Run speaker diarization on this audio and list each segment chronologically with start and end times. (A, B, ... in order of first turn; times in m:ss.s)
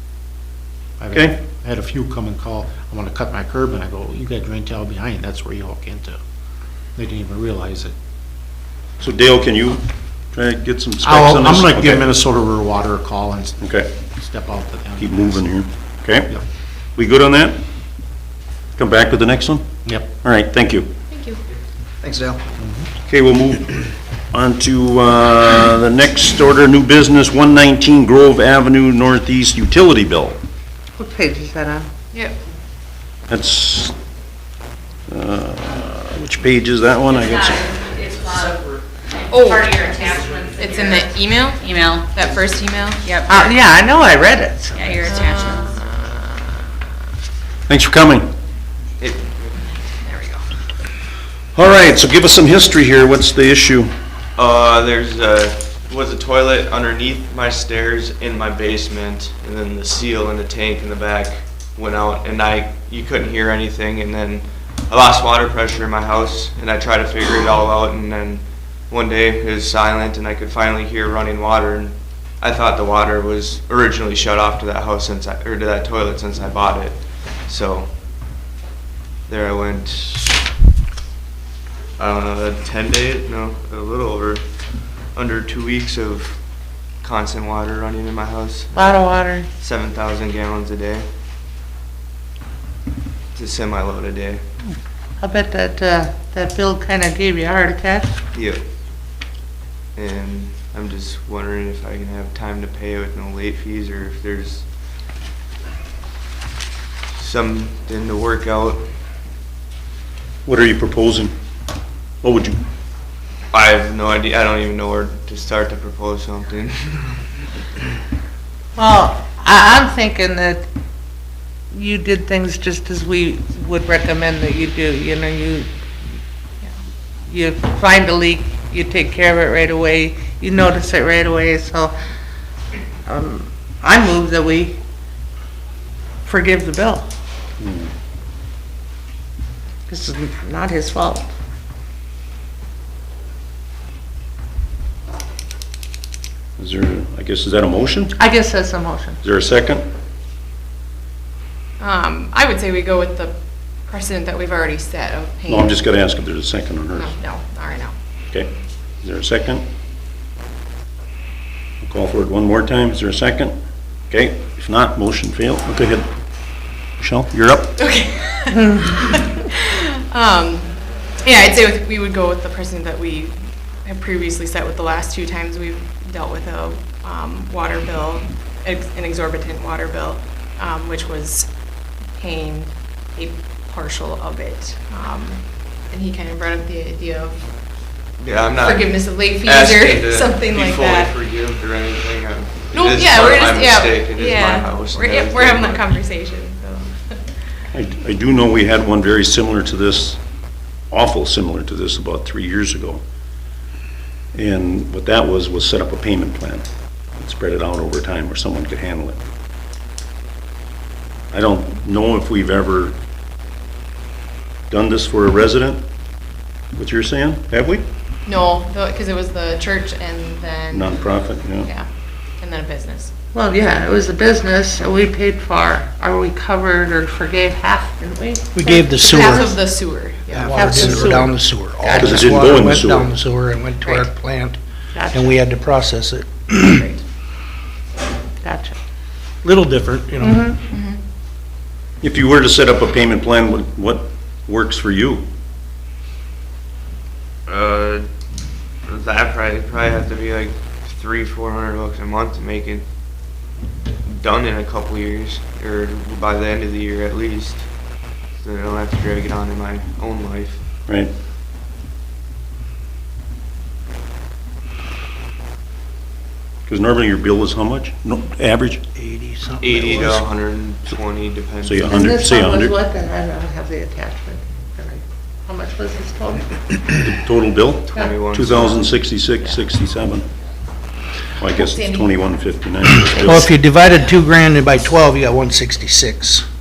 0:01.0-0:06.2 A
0:07.0-0:07.9 A
0:09.0-0:12.1 B
0:11.0-0:15.4 A
0:13.6-0:13.9 B
0:15.0-0:16.3 B
0:17.0-0:17.6 B
0:18.8-0:20.9 B
0:21.1-0:21.4 C
0:22.6-0:22.9 A
0:23.0-0:30.4 B
0:31.0-0:31.9 D
0:33.3-0:34.0 B
0:35.1-0:37.8 B
0:37.1-0:42.4 E
0:39.3-0:39.6 C
0:40.6-0:41.6 C
0:42.1-0:43.0 C
0:43.0-0:43.5 E
0:43.3-0:44.9 D
0:44.7-0:45.8 E
0:45.0-0:46.3 C
0:47.7-0:48.3 B
0:49.0-0:49.4 F
0:49.6-0:50.5 C
0:51.5-0:53.9 B
0:54.4-1:17.9 F
1:19.3-1:20.4 F
1:22.0-1:24.4 F
1:25.1-1:26.4 F
1:27.0-1:31.0 F
1:28.7-1:29.5 D
1:33.3-1:34.4 F
1:35.2-1:38.1 D
1:38.3-1:38.6 F
1:40.0-1:44.6 F
1:47.1-1:48.8 F
1:50.4-1:51.3 B
1:52.2-1:52.6 B
1:53.5-1:57.2 F
1:58.8-2:00.6 D
2:01.7-2:05.7 D
2:07.3-2:11.9 D
2:13.0-2:14.8 D
2:16.2-2:17.1 D
2:17.6-2:17.9 B
2:19.9-2:21.3 D
2:26.6-2:28.2 B
2:28.2-2:29.2 D
2:29.2-2:29.8 B
2:31.8-2:35.8 C
2:35.5-2:37.1 B
2:36.9-2:37.9 C
2:39.0-2:39.6 B
2:41.8-2:43.5 B
2:44.1-2:46.1 B
2:47.0-2:47.8 B
2:47.8-3:01.5 C
3:02.1-3:07.4 C
3:08.2-3:15.9 F
3:08.6-3:11.1 C
3:12.7-3:17.3 C
3:17.7-3:20.2 B
3:20.9-3:23.0 B
3:24.3-3:26.6 B
3:27.2-3:29.2 B
3:31.3-3:33.0 B
3:34.7-3:35.8 B
3:36.8-3:37.8 B
3:38.2-3:40.9 C
3:40.7-3:41.7 B
3:42.4-3:43.1 C
3:43.3-3:49.6 D
3:48.5-3:49.7 G
3:49.0-3:50.8 C
3:50.3-3:54.6 G
3:50.5-3:52.6 D
3:51.9-3:53.1 B
3:54.9-3:55.4 D
3:55.1-3:56.9 G
3:56.6-3:57.0 C
3:58.4-3:58.8 D
3:59.4-4:00.6 G
4:00.2-4:00.6 D
4:00.7-4:01.0 C
4:02.0-4:05.2 B
4:07.5-4:08.1 F
4:08.8-4:12.8 F
4:14.0-4:17.7 F
4:18.4-4:20.6 F
4:26.7-4:28.8 B
4:28.9-4:30.2 G
4:29.6-4:31.9 F
4:31.6-4:32.7 B
4:31.9-4:36.4 D
4:36.9-4:40.2 B
4:37.9-4:38.9 F
4:41.4-4:43.5 B
4:41.7-4:42.0 C
4:43.1-4:46.4 G